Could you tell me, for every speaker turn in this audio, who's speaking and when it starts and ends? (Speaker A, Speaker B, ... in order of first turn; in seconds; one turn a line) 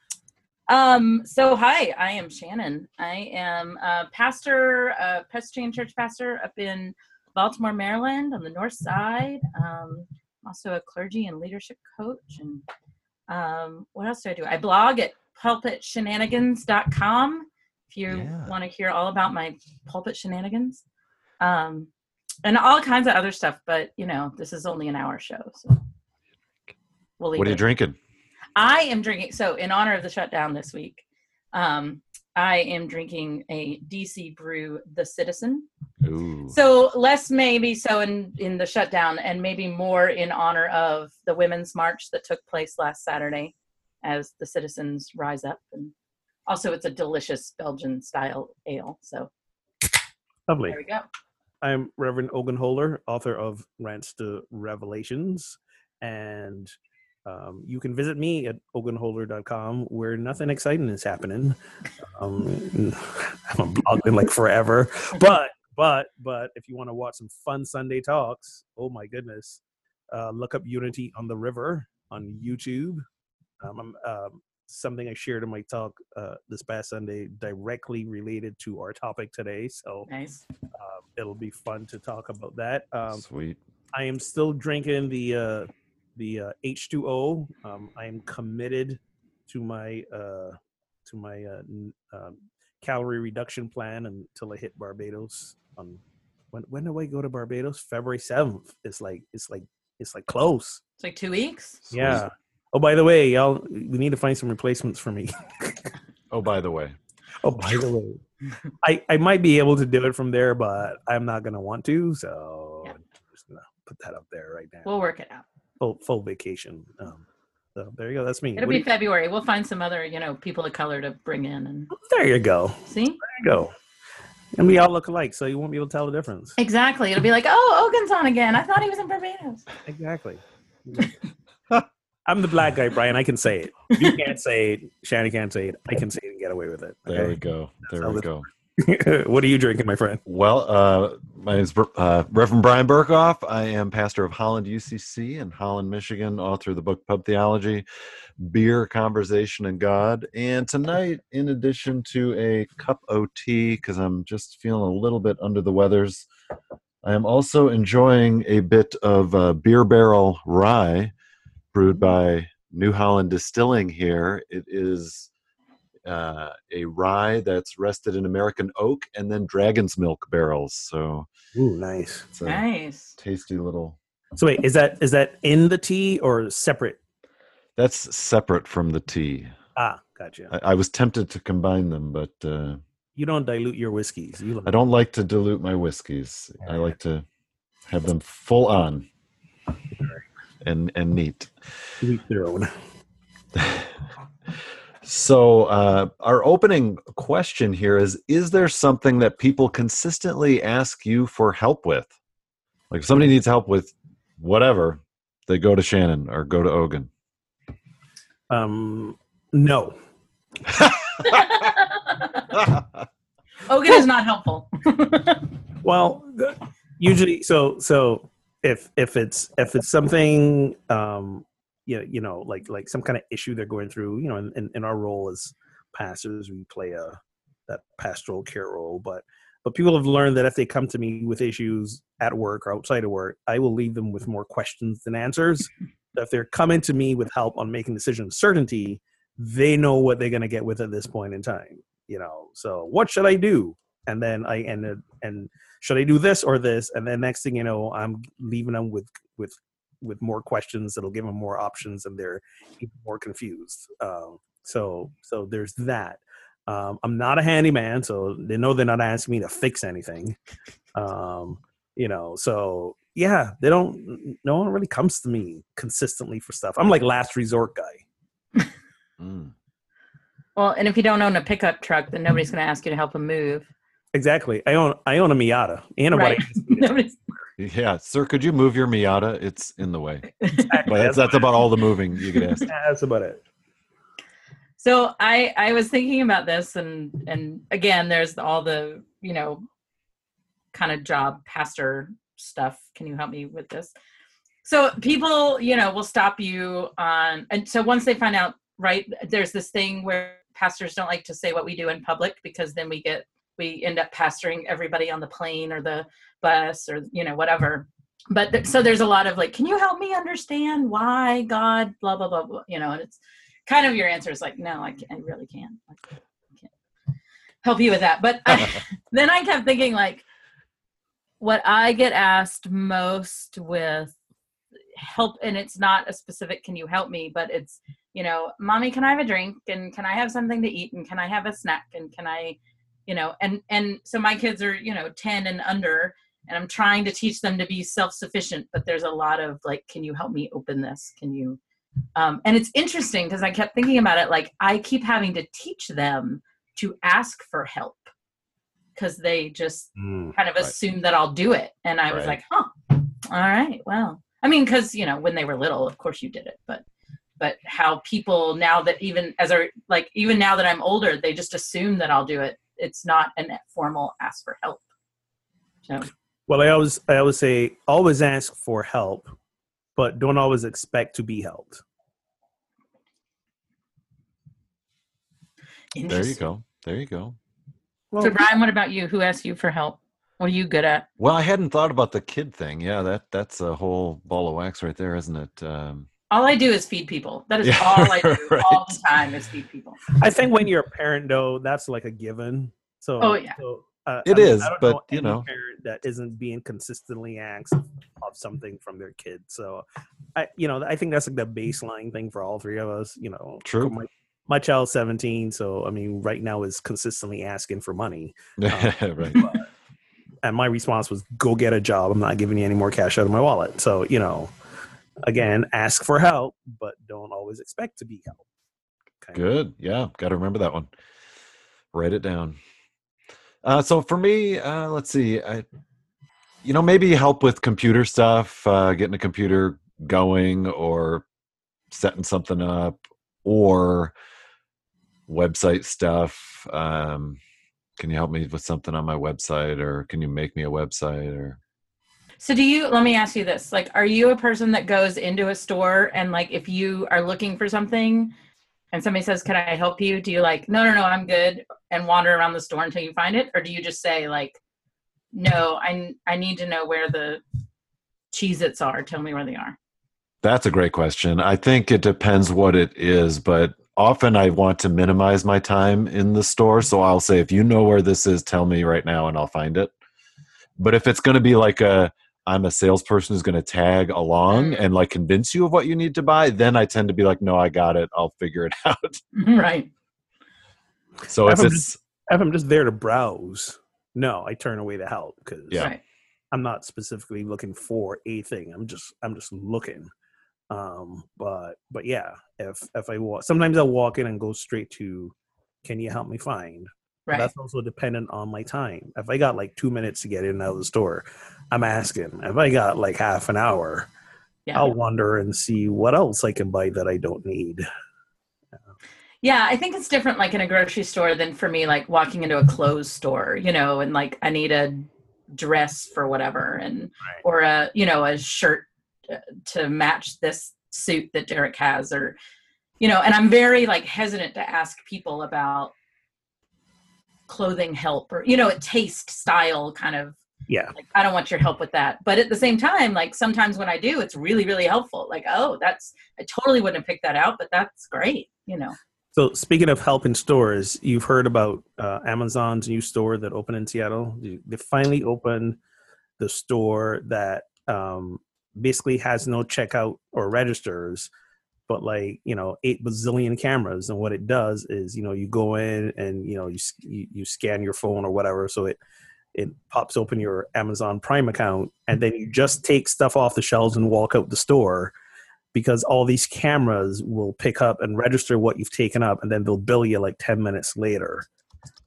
Speaker A: 0.7-12.6
Speaker A: 13.3-20.8
Speaker B: 18.1-18.5
Speaker A: 21.4-21.9
Speaker A: 22.4-25.8
Speaker A: 27.2-27.6
Speaker B: 27.4-28.0
Speaker A: 28.6-35.7
Speaker B: 36.0-36.5
Speaker A: 36.5-45.9
Speaker A: 46.5-49.3
Speaker C: 50.5-50.8
Speaker A: 50.7-51.0
Speaker C: 51.6-56.7
Speaker C: 57.3-73.0
Speaker C: 73.6-80.1
Speaker A: 80.1-80.4
Speaker C: 80.8-83.2
Speaker B: 83.1-83.6
Speaker C: 83.9-96.0
Speaker C: 96.5-100.8
Speaker A: 101.0-101.8
Speaker B: 101.8-102.2
Speaker C: 101.9-105.9
Speaker B: 106.3-107.0
Speaker C: 107.4-108.2
Speaker B: 107.6-107.9
Speaker C: 108.8-114.9
Speaker A: 114.8-115.5
Speaker C: 115.8-117.2
Speaker C: 117.8-118.8
Speaker A: 118.6-121.9
Speaker C: 121.9-123.7
Speaker A: 122.9-123.2
Speaker C: 124.5-126.6
Speaker A: 126.6-129.7
Speaker C: 129.8-131.1
Speaker C: 132.3-137.4
Speaker B: 137.1-138.5
Speaker C: 137.9-138.3
Speaker C: 138.8-140.2
Speaker B: 140.3-147.8
Speaker B: 148.4-156.3
Speaker B: 157.0-161.1
Speaker B: 161.7-165.3
Speaker B: 166.1-171.3
Speaker C: 171.5-172.3
Speaker B: 172.3-172.7
Speaker A: 172.4-173.2
Speaker B: 173.2-174.0
Speaker C: 174.3-177.0
Speaker B: 177.8-179.5
Speaker C: 179.8-180.5
Speaker B: 180.5-182.8
Speaker C: 183.2-184.8
Speaker B: 184.7-187.2
Speaker C: 186.6-186.9
Speaker B: 187.9-189.1
Speaker B: 190.6-191.5
Speaker C: 192.0-192.7
Speaker B: 193.5-193.9
Speaker B: 195.0-202.1
Speaker B: 202.9-207.1
Speaker C: 208.5-210.0
Speaker A: 211.2-212.5
Speaker A: 213.7-215.5
Speaker C: 215.8-260.4
Speaker C: 260.9-268.0
Speaker B: 269.2-269.5
Speaker A: 270.6-273.7
Speaker C: 274.1-276.9
Speaker A: 276.1-277.2
Speaker B: 277.6-280.3
Speaker A: 280.4-280.8
Speaker C: 280.6-281.5
Speaker B: 280.9-282.6
Speaker C: 282.6-283.4
Speaker A: 284.8-289.6
Speaker A: 290.7-293.9
Speaker A: 294.6-316.0
Speaker A: 317.6-320.2
Speaker A: 321.4-324.1
Speaker A: 324.9-341.6
Speaker A: 342.1-348.1
Speaker A: 348.9-356.8
Speaker C: 350.0-350.4
Speaker B: 352.1-352.4
Speaker A: 357.4-364.8
Speaker C: 366.5-369.3
Speaker C: 369.9-371.8
Speaker A: 375.9-376.4
Speaker B: 376.1-377.4
Speaker C: 378.1-378.4
Speaker A: 378.2-381.1
Speaker B: 381.2-386.1
Speaker A: 386.3-390.1
Speaker B: 387.6-388.9
Speaker C: 390.1-399.8
Speaker A: 393.2-393.6
Speaker B: 394.2-395.4
Speaker C: 400.4-409.7
Speaker B: 403.6-403.9
Speaker B: 408.6-409.4
Speaker C: 410.4-414.5
Speaker C: 415.2-418.4
Speaker B: 419.3-420.9
Speaker B: 421.9-422.6
Speaker B: 423.6-425.6
Speaker B: 426.6-431.2
Speaker B: 431.9-434.1
Speaker B: 435.3-437.4
Speaker B: 438.0-441.6
Speaker A: 442.4-448.3
Speaker A: 448.9-454.6
Speaker A: 455.3-457.4
Speaker A: 458.3-459.8
Speaker B: 460.4-469.9
Speaker B: 470.8-479.2
Speaker A: 474.5-474.8
Speaker A: 479.3-479.9
Speaker B: 481.3-482.0
Speaker C: 481.4-485.9
Speaker C: 486.5-490.1
Speaker C: 490.7-504.1
Speaker A: 504.7-504.9
Speaker C: 504.8-507.9
Speaker A: 509.4-522.4
Speaker A: 523.0-525.9
Speaker A: 527.5-530.4
Speaker C: 530.7-530.9
Speaker A: 530.9-539.0
Speaker C: 539.4-545.8
Speaker C: 546.4-551.3
Speaker C: 551.9-559.0
Speaker C: 559.5-565.1
Speaker C: 565.7-571.5